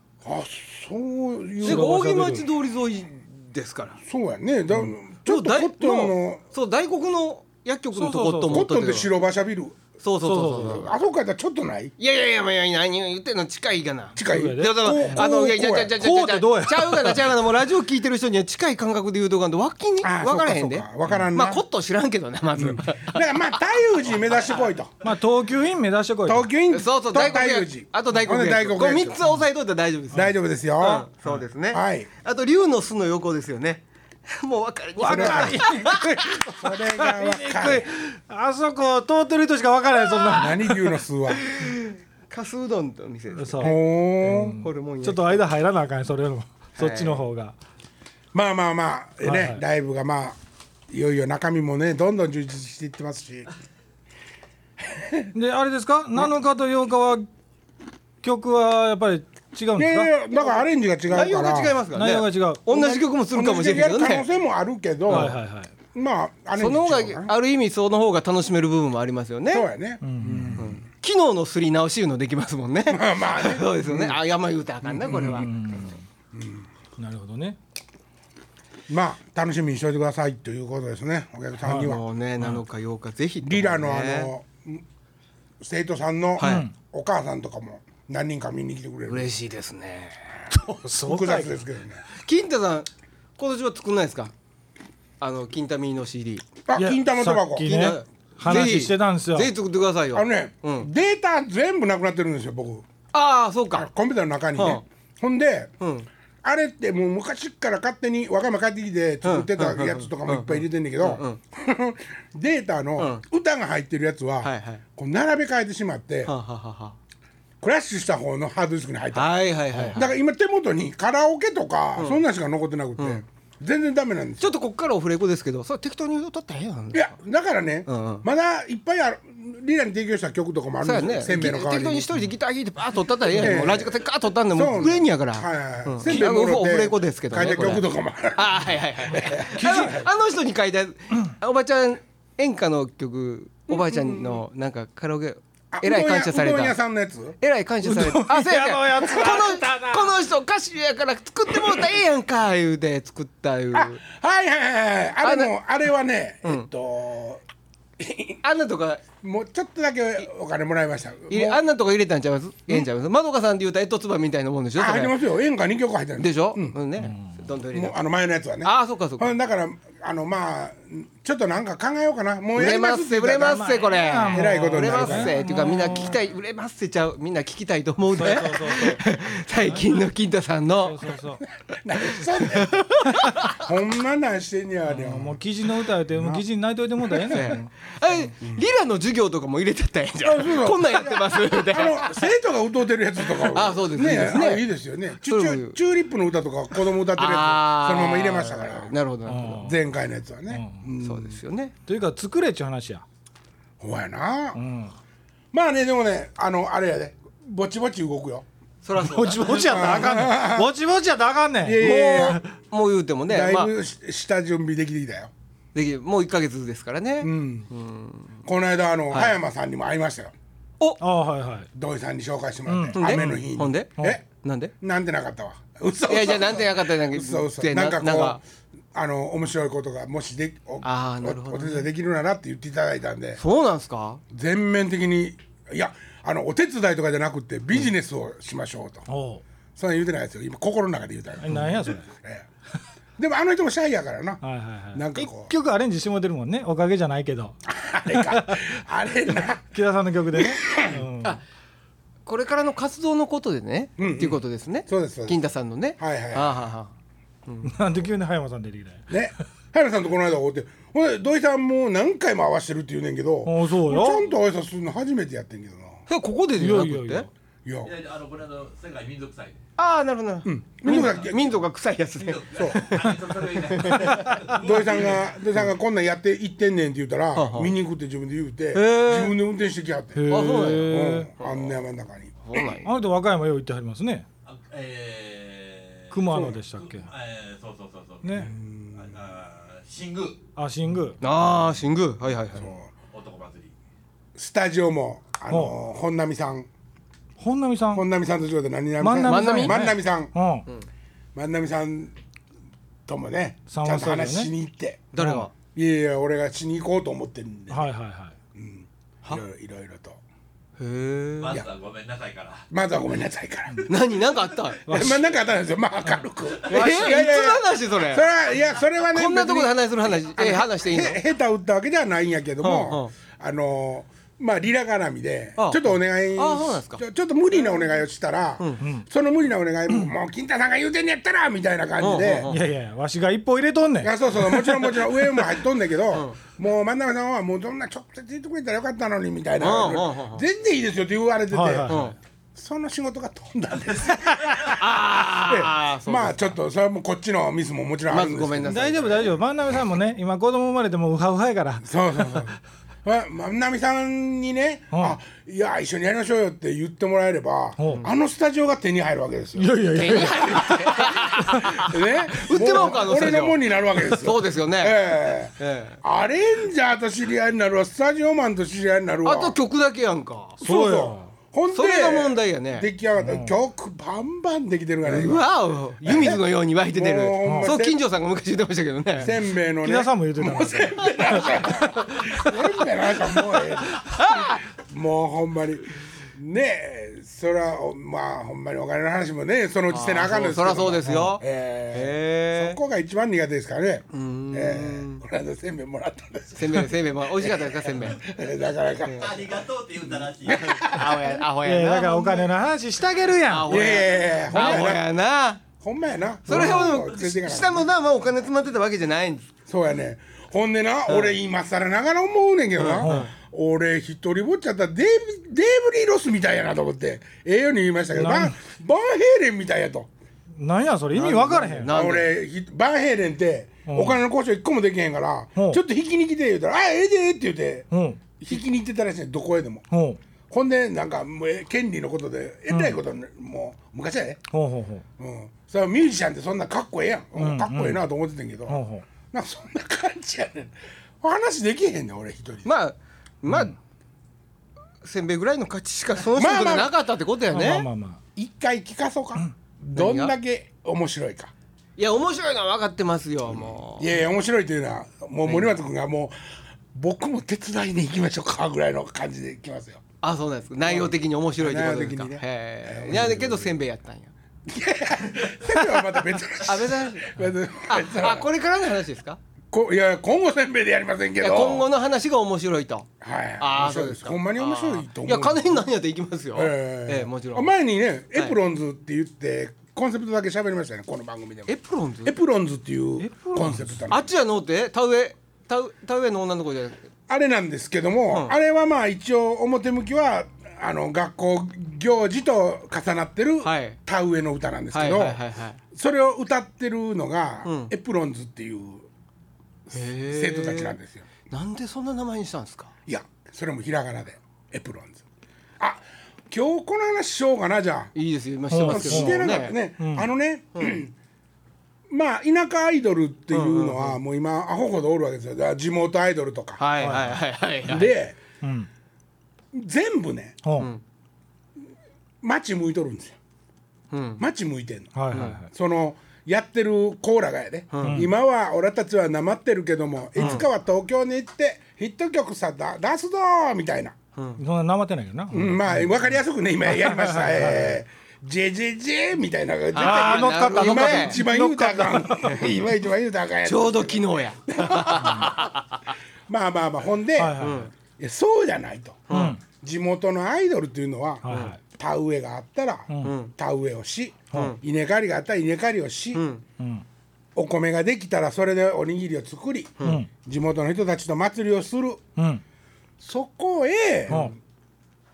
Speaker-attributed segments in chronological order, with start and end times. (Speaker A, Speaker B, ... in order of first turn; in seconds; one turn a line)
Speaker A: 0.2-2.0
Speaker B: 1.6-2.5
Speaker C: 1.6-4.0
Speaker A: 4.0-6.4
Speaker C: 5.2-9.1
Speaker B: 7.9-8.6
Speaker A: 8.5-9.8
Speaker C: 10.0-10.9
Speaker B: 10.2-10.9
Speaker A: 10.7-11.9
Speaker C: 12.0-23.5
Speaker A: 14.1-16.0
Speaker B: 14.2-15.3
Speaker B: 16.0-17.4
Speaker A: 20.0-21.6
Speaker A: 22.5-25.0
Speaker C: 24.3-24.6
Speaker B: 25.0-26.5
Speaker A: 26.2-29.2
Speaker C: 26.7-36.5
Speaker A: 30.1-31.1
Speaker A: 31.7-32.1
Speaker B: 35.0-36.0
Speaker A: 35.0-37.9
Speaker B: 36.9-41.0
Speaker A: 40.2-41.4
Speaker C: 41.4-43.7
Speaker B: 43.4-47.5
Speaker A: 43.6-44.6
Speaker C: 44.3-45.4
Speaker C: 46.8-47.2
Speaker A: 48.3-50.4
Speaker B: 49.2-49.6
Speaker A: 50.9-53.5
Speaker A: 54.8-55.3
Speaker B: 55.3-57.3
Speaker B: 58.2-60.1
Speaker A: 59.8-61.8
Speaker C: 61.1-64.2
Speaker B: 61.9-62.6
Speaker A: 62.7-65.4
Speaker B: 65.1-65.7
Speaker A: 65.9-67.3
Speaker C: 66.5-69.7
Speaker A: 69.5-70.8
Speaker B: 70.0-70.7
Speaker C: 70.5-75.5
Speaker A: 72.9-74.1
Speaker A: 74.8-75.5
Speaker B: 75.1-76.0
Speaker A: 76.3-76.7
Speaker B: 77.0-77.6
Speaker A: 78.9-82.0
Speaker C: 81.6-84.3
Speaker A: 83.4-84.8
Speaker A: 85.6-89.3
Speaker C: 86.4-86.7
Speaker B: 86.4-86.7
Speaker C: 89.1-90.7
Speaker B: 90.6-91.6
Speaker A: 90.9-92.0
Speaker C: 92.1-94.3
Speaker C: 95.2-96.4
Speaker A: 96.7-97.9
Speaker B: 96.7-99.5
Speaker C: 97.6-100.9
Speaker A: 100.1-102.8
Speaker C: 103.1-103.9
Speaker A: 103.7-105.7
Speaker C: 104.5-104.8
Speaker C: 105.8-106.1
Speaker A: 106.4-116.3
Speaker C: 109.2-111.4
Speaker C: 113.0-113.2
Speaker C: 114.4-114.8
Speaker C: 116.2-117.0
Speaker A: 117.6-119.3
Speaker C: 119.1-120.0
Speaker B: 119.7-120.0
Speaker A: 119.9-124.5
Speaker C: 122.0-122.2
Speaker C: 123.0-123.2
Speaker C: 124.4-127.2
Speaker A: 126.9-132.1
Speaker C: 127.9-128.2
Speaker C: 130.8-146.8
Speaker A: 133.3-133.9
Speaker A: 134.5-140.0
Speaker B: 139.6-140.0
Speaker A: 143.7-144.4
Speaker A: 145.7-147.4
Speaker C: 147.4-154.0
Speaker B: 147.8-150.2
Speaker A: 153.7-157.4
Speaker C: 155.2-155.5
Speaker A: 158.0-158.4
Speaker C: 158.4-159.0
Speaker A: 159.2-161.6
Speaker C: 161.3-165.2
Speaker A: 164.8-166.8
Speaker C: 166.2-167.9
Speaker B: 167.0-167.3
Speaker A: 167.7-173.7
Speaker C: 168.6-169.3
Speaker C: 172.5-181.0
Speaker B: 173.5-176.2
Speaker A: 174.3-175.3
Speaker B: 178.2-179.9
Speaker B: 180.8-181.4
Speaker A: 181.8-182.8
Speaker C: 182.0-183.7
Speaker A: 183.5-185.4
Speaker B: 184.9-187.7
Speaker A: 186.1-186.4
Speaker A: 187.1-187.5
Speaker C: 187.3-192.2
Speaker A: 190.2-198.9
Speaker C: 193.3-194.6
Speaker C: 195.2-195.8
Speaker C: 197.1-199.7
Speaker B: 199.3-199.8
Speaker A: 199.5-201.4
Speaker B: 200.5-200.8
Speaker C: 201.0-201.7
Speaker B: 201.8-203.0
Speaker A: 203.8-204.6
Speaker B: 204.5-204.9
Speaker A: 205.5-208.4
Speaker C: 208.8-210.0
Speaker B: 208.9-212.4
Speaker A: 209.7-210.7
Speaker A: 211.6-212.4
Speaker C: 211.8-213.7
Speaker A: 213.3-215.3
Speaker C: 215.7-218.4
Speaker A: 217.2-217.7
Speaker A: 218.4-220.3
Speaker B: 221.0-221.7
Speaker A: 221.7-224.2
Speaker B: 222.7-223.4
Speaker C: 222.9-224.7
Speaker A: 224.8-228.4
Speaker C: 226.1-228.4
Speaker A: 228.9-233.4
Speaker C: 230.8-231.9
Speaker C: 233.4-234.2
Speaker A: 234.3-239.0
Speaker B: 239.1-239.4
Speaker A: 239.8-242.5
Speaker B: 241.4-242.1
Speaker A: 243.2-244.4
Speaker B: 244.4-247.6
Speaker A: 244.9-245.5
Speaker A: 247.7-249.7
Speaker B: 248.1-248.8
Speaker B: 249.3-251.4
Speaker A: 250.3-251.0
Speaker C: 252.2-256.9
Speaker A: 254.0-255.4
Speaker A: 256.0-256.6
Speaker C: 257.4-257.7
Speaker B: 257.6-259.1
Speaker A: 259.1-266.0
Speaker B: 263.4-264.2
Speaker C: 266.1-267.3
Speaker B: 266.6-267.3
Speaker A: 267.6-267.9
Speaker D: 267.8-269.6
Speaker C: 269.8-274.3
Speaker A: 270.4-271.4
Speaker D: 270.9-271.3
Speaker D: 272.2-275.4
Speaker A: 272.5-272.8
Speaker A: 274.5-282.7
Speaker C: 277.3-277.7
Speaker C: 278.7-279.4
Speaker B: 280.1-281.3
Speaker C: 280.3-281.8
Speaker C: 282.4-282.9
Speaker B: 282.8-284.2
Speaker D: 284.4-290.4
Speaker B: 286.1-287.1
Speaker A: 286.3-286.6
Speaker B: 288.2-288.5
Speaker A: 288.3-289.1
Speaker B: 290.6-291.2
Speaker C: 291.2-292.7
Speaker A: 292.6-292.9
Speaker D: 293.1-293.7
Speaker A: 294.3-296.7
Speaker B: 297.4-298.0
Speaker A: 297.9-300.3
Speaker B: 299.0-300.6
Speaker C: 299.2-299.9
Speaker A: 301.3-302.1
Speaker A: 303.1-305.1
Speaker B: 303.7-304.5
Speaker C: 305.1-305.5
Speaker B: 305.2-305.5
Speaker A: 305.7-307.8
Speaker B: 307.7-308.3
Speaker A: 308.5-310.2
Speaker C: 310.8-311.6
Speaker D: 311.4-312.6
Speaker A: 312.7-313.9
Speaker C: 313.9-314.8
Speaker A: 314.9-332.5
Speaker B: 314.9-315.2
Speaker D: 316.5-316.8
Speaker C: 316.7-318.3
Speaker B: 316.8-317.2
Speaker C: 319.0-321.2
Speaker C: 322.6-323.1
Speaker C: 325.6-327.0
Speaker C: 332.0-332.6
Speaker B: 332.5-335.1
Speaker A: 334.0-349.0
Speaker C: 336.1-336.4
Speaker C: 339.6-340.4
Speaker B: 341.5-342.1
Speaker C: 341.9-342.1
Speaker C: 344.6-346.5
Speaker C: 348.1-349.3
Speaker B: 348.7-352.5
Speaker A: 351.8-361.0
Speaker B: 357.8-358.0
Speaker B: 359.6-361.8
Speaker C: 359.9-366.0
Speaker A: 361.6-369.6
Speaker C: 369.2-370.6
Speaker B: 370.6-371.3
Speaker A: 370.6-375.4
Speaker C: 371.7-372.9
Speaker B: 373.2-373.5
Speaker C: 375.0-379.3
Speaker A: 376.0-378.0
Speaker B: 377.4-377.7
Speaker A: 379.2-399.6
Speaker B: 379.8-381.6
Speaker C: 381.7-382.7
Speaker C: 383.5-384.6
Speaker C: 389.9-392.8
Speaker B: 391.1-391.4
Speaker C: 394.1-395.2
Speaker C: 396.5-398.2
Speaker D: 399.1-400.9
Speaker A: 400.4-401.3
Speaker C: 400.4-402.5
Speaker B: 401.6-403.9
Speaker C: 403.5-405.6
Speaker A: 403.7-405.1
Speaker B: 404.5-404.9
Speaker A: 405.8-407.9
Speaker C: 406.5-409.5
Speaker B: 406.5-406.8
Speaker A: 409.7-420.1
Speaker C: 411.1-411.3
Speaker C: 412.8-413.3
Speaker B: 413.0-413.3
Speaker B: 418.1-418.6
Speaker B: 420.6-421.9
Speaker C: 421.1-422.3
Speaker A: 421.3-427.9
Speaker B: 423.9-424.2
Speaker B: 427.9-428.2
Speaker A: 428.4-429.8
Speaker B: 429.9-430.2
Speaker A: 430.5-434.4
Speaker B: 432.7-433.0
Speaker B: 434.5-435.0
Speaker A: 435.2-442.7
Speaker B: 437.4-438.0
Speaker B: 438.7-439.0
Speaker C: 442.6-443.8
Speaker B: 443.5-443.7
Speaker C: 445.0-447.8
Speaker A: 446.3-446.9
Speaker B: 447.5-448.2
Speaker A: 448.4-451.5
Speaker C: 449.9-450.3
Speaker C: 452.0-454.2
Speaker A: 453.5-456.3
Speaker C: 455.4-455.8
Speaker A: 456.9-460.0
Speaker C: 460.2-464.3
Speaker A: 460.8-463.7
Speaker A: 464.7-468.5
Speaker C: 466.5-469.4
Speaker A: 469.7-471.9
Speaker C: 471.4-473.1
Speaker A: 473.2-475.8
Speaker C: 473.6-477.7
Speaker A: 476.5-484.3
Speaker C: 481.7-482.3
Speaker C: 483.2-487.0
Speaker A: 487.3-495.4
Speaker C: 493.6-494.0
Speaker C: 494.9-495.8
Speaker A: 495.9-499.1
Speaker C: 497.6-497.9
Speaker A: 499.9-501.3
Speaker C: 499.9-500.9
Speaker C: 501.5-502.9
Speaker A: 503.1-505.2
Speaker A: 505.8-508.1
Speaker C: 508.1-509.8
Speaker B: 508.7-509.4
Speaker A: 508.8-511.1
Speaker B: 510.0-510.3
Speaker A: 512.1-516.8
Speaker C: 513.5-514.2
Speaker C: 516.8-518.1
Speaker B: 517.0-517.4
Speaker A: 517.9-518.4
Speaker B: 518.6-518.9
Speaker A: 519.7-520.6
Speaker B: 520.6-520.9
Speaker C: 520.8-521.0
Speaker A: 522.4-523.4
Speaker C: 524.1-524.4
Speaker A: 524.4-534.1
Speaker B: 525.1-525.7
Speaker C: 525.3-525.6
Speaker C: 527.9-528.2
Speaker B: 528.0-528.3
Speaker B: 530.4-530.6
Speaker C: 530.4-530.6
Speaker C: 534.3-534.6
Speaker B: 534.6-536.1
Speaker A: 535.5-545.7
Speaker B: 537.0-538.0
Speaker C: 539.9-541.4
Speaker B: 540.0-542.6
Speaker C: 543.6-546.1
Speaker A: 546.5-556.4
Speaker B: 547.4-547.9
Speaker C: 547.6-547.9
Speaker C: 549.3-549.6
Speaker B: 549.3-549.6
Speaker B: 551.4-551.8
Speaker C: 551.5-551.7
Speaker B: 553.1-553.4
Speaker C: 553.2-553.5
Speaker C: 554.5-554.8
Speaker C: 556.3-556.6
Speaker A: 557.5-562.2
Speaker C: 560.0-560.2
Speaker B: 560.0-560.3
Speaker B: 562.4-562.6
Speaker A: 563.2-564.5
Speaker B: 564.3-564.5